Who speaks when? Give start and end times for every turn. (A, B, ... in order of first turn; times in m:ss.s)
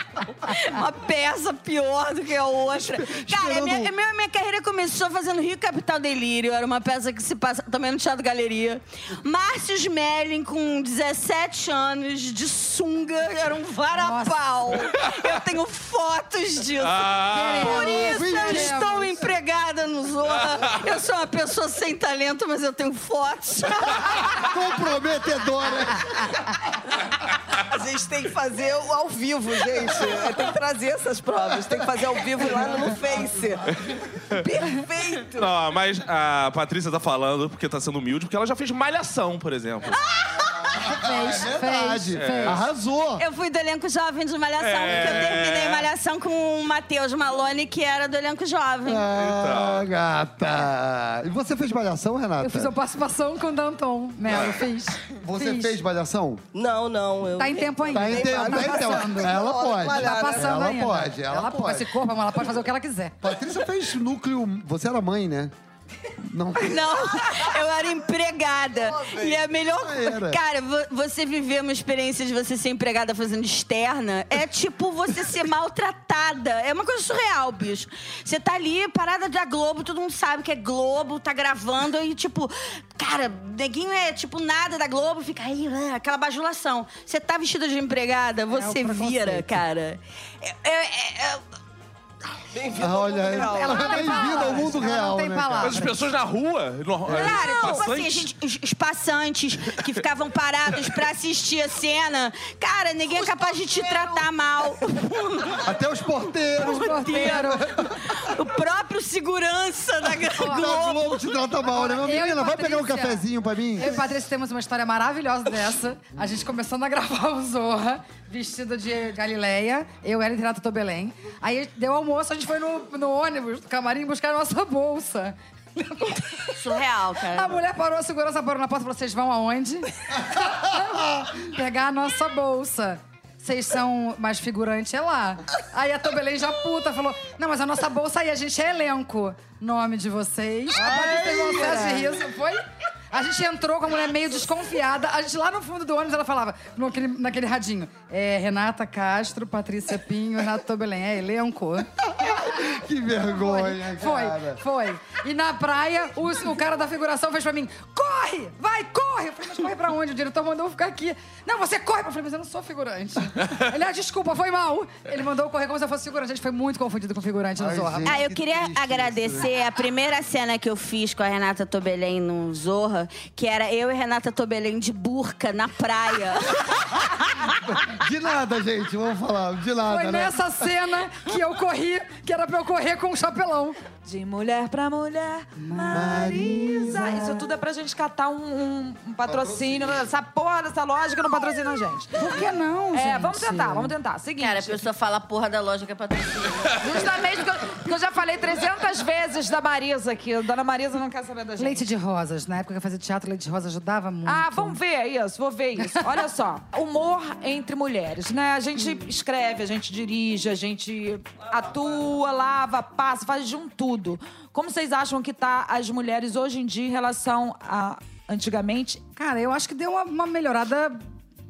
0:00.4-0:24.5 A
0:03.0-0:03.9 B
0:13.9-0:14.8 C
0:16.8-0:18.0 D
0:17.3-0:19.3 C
0:18.0-0:18.8 B
0:24.4-0:26.4 B
0:27.6-0:33.7 E
0:32.5-0:32.9 B
0:33.7-0:34.4 D
0:34.3-0:35.5 E
0:35.4-0:40.0 D
0:40.0-0:40.7 A
0:40.6-0:43.2 B
0:40.8-0:42.6 C
0:42.2-0:42.6 D
0:43.2-0:49.1 A
0:44.6-0:45.9 D
0:44.9-0:45.2 B
0:48.8-0:52.7 B
0:49.1-0:49.9 D
0:52.4-0:55.8 C
0:54.3-0:54.7 D
0:55.2-0:56.4 B
0:56.5-1:00.6 E
0:57.4-1:03.2 C
0:57.9-1:01.9 B
1:03.2-1:05.5 B
1:06.2-1:07.1 B
1:06.6-1:31.4 A
1:08.7-1:09.5 E
1:09.8-1:10.4 B
1:28.5-1:29.6 C
1:32.5-1:34.6 E
1:32.8-1:35.8 B
1:33.3-1:36.1 C
1:35.6-1:38.3 D
1:37.1-1:45.6 A
1:43.1-1:44.3 E
1:45.6-1:48.1 B
1:46.6-1:47.8 C
1:46.6-1:51.3 A
1:50.3-1:54.0 B
1:50.4-1:50.7 C
1:51.6-2:06.6 C
2:06.6-2:07.6 A
2:07.3-2:31.9 C
2:20.7-2:22.2 B
2:32.0-2:34.6 B
2:33.3-2:48.2 C
2:47.6-2:49.5 B
2:48.0-2:57.5 A
2:57.7-3:00.7 B
2:59.9-3:03.8 C
3:04.0-3:12.2 F
3:05.6-3:07.2 C
3:05.9-3:07.3 B
3:09.2-3:10.0 B
3:12.2-3:13.9 C
3:12.9-3:14.8 F
3:14.4-3:17.0 A
3:16.8-3:21.8 F
3:21.6-3:24.8 C
3:24.3-3:39.0 F
3:31.4-3:32.2 E
3:39.2-3:41.0 C